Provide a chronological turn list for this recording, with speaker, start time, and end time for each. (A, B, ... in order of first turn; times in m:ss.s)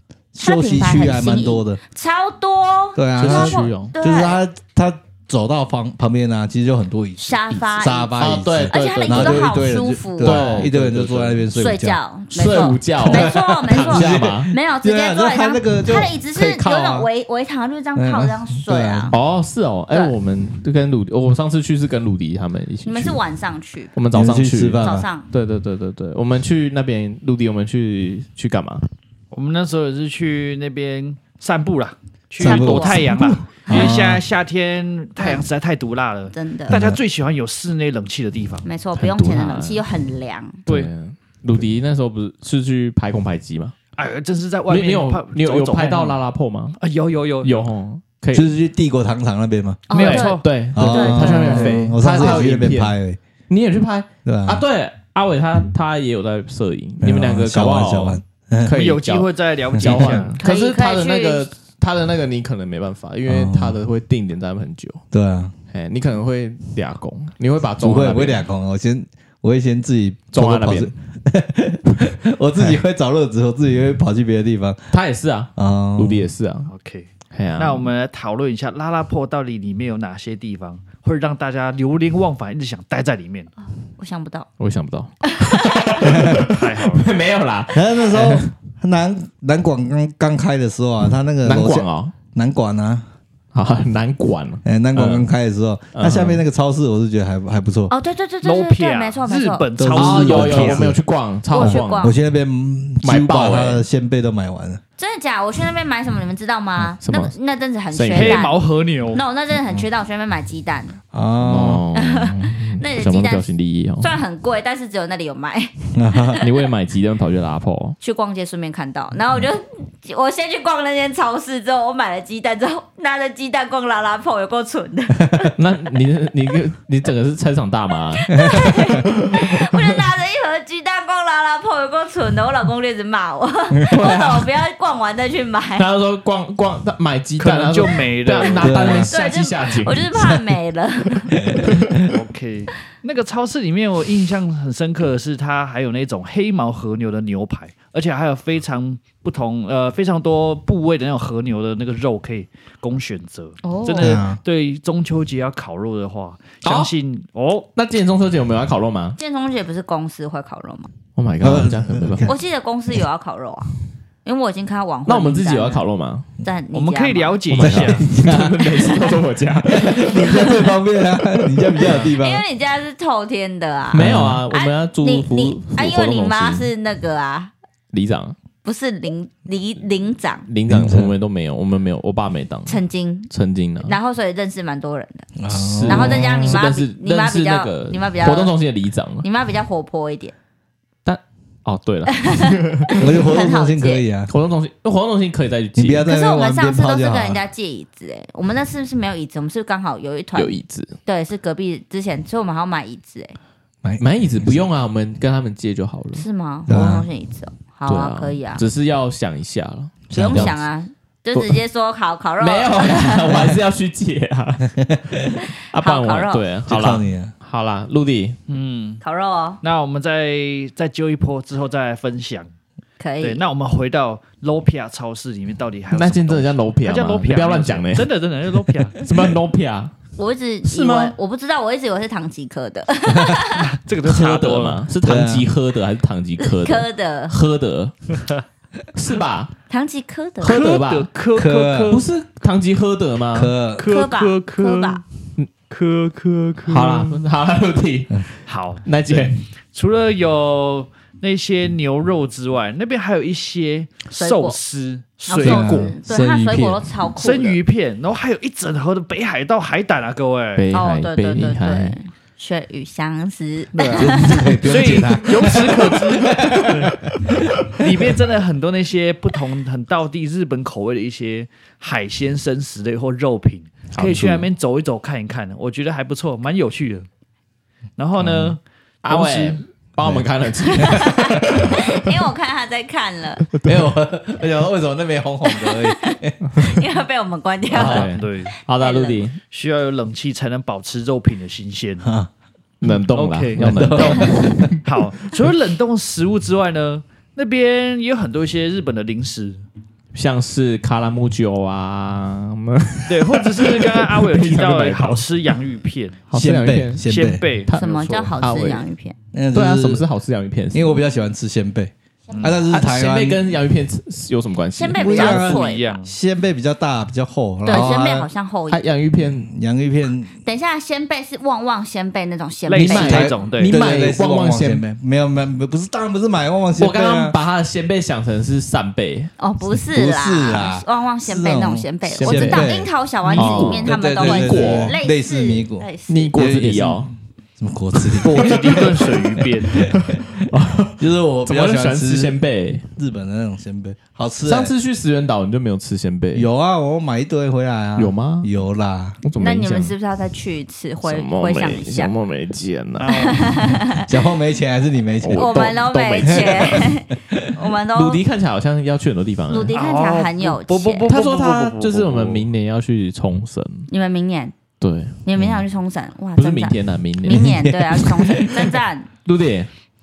0:00.3-0:01.8 A
0:00.4-0:04.4 B
0:03.0-0:12.0 A
0:03.2-0:03.9 C
0:07.2-0:10.7 B
0:08.2-0:09.6 C
0:10.2-0:11.5 C
0:11.5-0:19.2 B
0:12.3-0:14.5 C
0:13.0-0:17.1 A
0:18.0-0:19.1 A
0:19.1-0:23.2 C
0:22.8-0:23.9 B
0:24.0-0:28.8 C
0:24.1-0:25.1 A
0:24.8-0:25.3 B
0:29.3-0:38.7 D
0:32.4-0:34.2 A
0:32.4-0:34.0 B
0:35.2-0:35.4 B
0:36.3-0:36.7 B
0:36.7-0:37.0 A
0:38.6-0:40.6 B
0:39.0-0:39.8 C
0:40.7-0:43.8 C
0:44.0-0:46.2 D
0:44.7-0:46.8 C
0:46.8-0:47.5 D
0:47.4-0:48.5 C
0:48.3-0:49.8 A
0:49.9-0:51.7 B
0:49.9-0:50.5 D
0:49.9-0:53.0 C
0:50.7-0:53.2 A
0:51.2-0:51.8 D
0:53.5-1:05.0 C
0:54.2-0:54.6 A
0:57.0-0:58.8 A
0:58.7-1:00.4 D
0:59.7-1:00.3 A
1:00.4-1:01.5 B
1:03.3-1:03.8 A
1:05.1-1:05.5 A
1:05.7-1:08.5 C
1:07.8-1:14.9 A
1:10.3-1:10.9 C
1:14.9-1:16.7 C
1:15.6-1:16.3 A
1:16.7-1:23.5 D
1:17.3-1:17.9 C
1:24.0-1:24.5 B
1:24.6-1:28.5 C
1:25.2-1:26.0 B
1:26.0-1:26.5 A
1:26.4-1:27.1 D
1:27.7-1:33.0 A
1:31.4-1:32.1 C
1:33.5-1:35.3 C
1:34.6-1:37.9 A
1:35.9-1:36.4 C
1:37.9-1:39.7 B
1:38.4-1:40.9 D
1:39.8-1:41.0 A
1:39.9-1:42.1 C
1:41.5-1:42.2 B
1:41.6-1:44.8 A
1:43.0-1:43.9 C
1:45.0-1:51.0 B
1:47.0-1:47.4 C
1:47.9-1:48.5 C
1:48.1-1:49.2 D
1:51.1-1:51.9 A
1:51.4-1:54.1 C
1:51.9-1:53.5 B
1:54.0-1:56.5 B
1:55.9-1:56.4 A
1:56.4-1:58.0 C
1:58.0-2:05.6 B
2:05.2-2:05.5 A
2:05.6-2:09.9 C
2:08.2-2:15.9 B
2:08.4-2:08.7 A
2:13.9-2:14.5 C
2:15.8-2:20.1 C
2:17.4-2:19.1 D
2:18.6-2:19.1 A
2:19.1-2:21.6 B
2:21.3-2:22.1 A
2:22.0-2:37.7 D
2:33.6-2:34.2 B
2:34.0-2:34.4 A
2:36.6-2:36.9 C
2:37.8-2:39.2 C
2:39.2-2:40.9 B
2:41.2-2:42.3 C
2:41.4-2:42.3 A
2:42.2-2:43.7 B
2:44.2-2:45.8 B
2:45.1-2:46.3 C
2:46.4-2:47.5 B
2:46.7-2:48.0 D
2:47.5-2:52.1 C
2:47.6-2:48.8 A
2:48.7-2:49.2 B
2:49.7-2:52.4 A
2:52.2-2:57.5 B
2:53.9-2:56.7 C
2:54.0-2:54.4 A
2:57.9-2:58.4 C
2:58.6-3:00.5 B
3:00.5-3:04.0 C
3:00.7-3:01.1 A
3:02.7-3:03.3 B
3:03.8-3:05.3 B
3:05.4-3:06.6 A
3:05.5-3:09.3 C
3:05.9-3:08.6 B
3:09.2-3:10.4 B
3:11.0-3:13.0 C
3:12.2-3:14.0 B
3:13.0-3:14.3 A
3:14.3-3:16.1 C
3:15.8-3:17.4 A
3:16.1-3:23.4 B
3:20.4-3:21.0 C
3:23.8-3:24.6 A
3:24.0-3:26.2 C
3:26.2-3:28.6 B
3:26.7-3:27.1 A
3:27.9-3:30.6 C
3:30.1-3:30.6 A
3:30.1-3:33.5 B
3:32.4-3:34.7 C
3:34.8-3:35.3 A
3:35.7-3:38.4 C
3:35.8-3:36.4 B
3:36.7-3:37.3 A
3:38.5-3:39.0 D
3:39.0-3:39.6 B
3:39.6-3:42.5 D
3:43.0-3:43.4 B
3:43.2-3:49.0 D
3:45.9-3:49.9 C
3:50.2-3:53.7 B
3:50.7-3:51.2 C
3:53.1-3:53.4 A
3:53.6-3:54.8 D
3:54.0-3:58.0 C
3:55.0-3:55.5 A
3:56.4-3:57.3 B
3:58.9-3:59.5 C
3:59.7-4:00.6 B
4:00.4-4:01.1 C
4:00.4-4:02.0 D
4:01.3-4:02.0 A
4:01.9-4:03.5 C
4:03.3-4:03.9 A
4:03.8-4:05.0 D
4:03.8-4:05.0 B
4:05.7-4:07.2 D
4:06.6-4:09.4 C
4:08.5-4:16.0 D
4:14.2-4:14.6 B
4:15.3-4:17.6 B
4:15.4-4:16.9 A
4:17.2-4:20.6 D
4:20.6-4:22.0 C
4:20.7-4:24.6 B
4:23.7-4:27.1 D
4:24.0-4:27.5 A
4:27.7-4:37.1 D
4:33.9-4:34.5 C
4:38.0-4:39.6 D
4:38.2-4:38.6 A
4:39.0-4:42.1 C
4:40.0-4:41.8 A
4:40.7-4:43.5 B
4:43.5-4:43.9 C
4:43.6-4:46.6 A
4:45.5-4:49.2 B
4:47.7-4:49.4 C
4:47.7-4:48.5 D
4:49.5-4:52.1 D
4:52.0-4:52.3 A
4:52.8-4:54.8 C
4:52.8-4:59.6 D
4:53.6-4:54.8 A
4:54.0-4:54.6 B
5:00.1-5:05.6 C
5:03.1-5:06.2 D
5:06.3-5:07.1 C
5:06.3-5:07.4 A
5:07.0-5:08.3 D
5:07.7-5:08.8 C
5:07.7-5:09.2 B
5:09.3-5:10.0 A
5:09.5-5:11.0 C
5:10.7-5:13.4 A
5:12.7-5:15.4 C
5:14.8-5:16.0 B
5:15.0-5:18.3 A
5:15.1-5:16.1 D
5:17.6-5:18.8 B
5:18.7-5:19.5 C
5:19.2-5:20.3 A
5:20.4-5:23.3 B
5:22.7-5:23.8 D
5:22.8-5:24.8 C
5:23.0-5:27.4 A
5:26.8-5:29.3 C
5:29.4-5:36.4 B
5:29.7-5:40.4 A
5:32.1-5:35.0 C
5:36.1-5:37.1 C
5:38.0-5:42.8 C
5:38.2-5:39.9 D
5:41.0-5:44.7 A
5:44.5-5:46.5 C
5:46.3-5:49.2 A
5:48.0-5:48.5 C
5:49.2-5:49.9 C
5:49.4-5:52.1 B
5:51.0-5:53.4 C
5:53.0-5:53.5 D
5:53.1-5:54.1 B
5:54.1-5:55.8 A
5:55.2-5:56.9 C
5:55.3-5:58.2 B
5:56.3-5:57.6 A
5:57.9-5:59.8 C
5:59.5-6:01.1 B
5:59.7-6:02.5 D
6:01.1-6:03.9 C
6:03.9-6:04.6 B
6:04.8-6:05.5 C
6:05.2-6:09.1 B
6:06.4-6:07.6 C
6:07.2-6:08.6 A
6:09.2-6:09.7 C